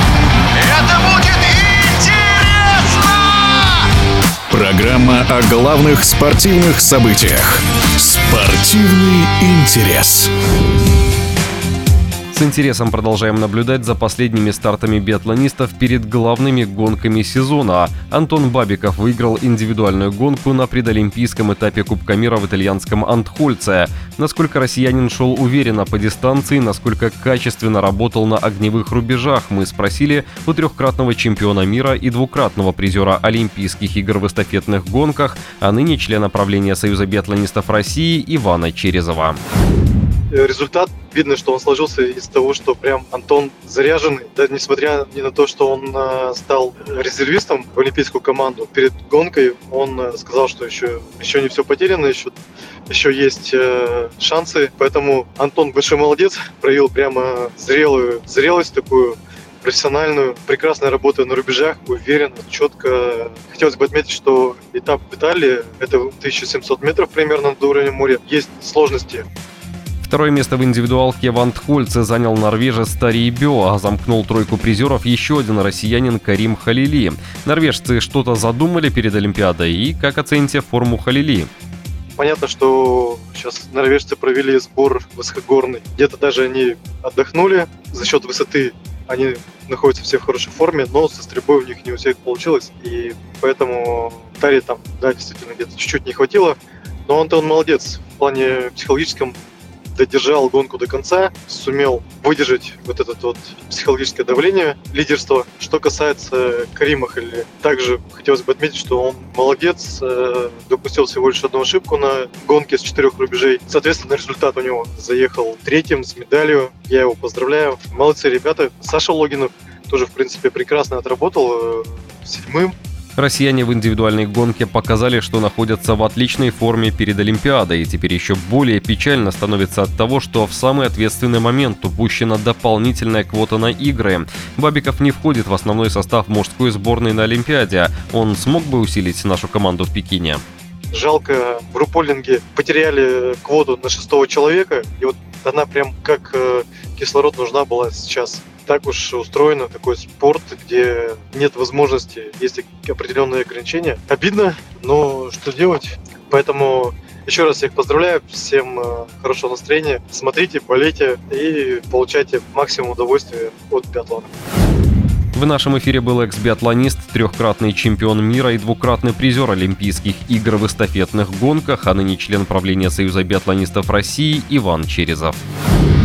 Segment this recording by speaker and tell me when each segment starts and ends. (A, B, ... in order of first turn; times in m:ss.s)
0:00.5-0:03.8 A
0:04.5-0:10.3 A
0:12.3-0:39.4 B
0:40.3-0:52.3 C
0:52.9-1:09.2 C
1:10.0-1:21.5 B
1:22.2-1:39.4 C
1:39.9-2:02.7 C
2:03.2-2:20.4 B
2:20.9-2:44.3 C
2:45.3-2:55.4 B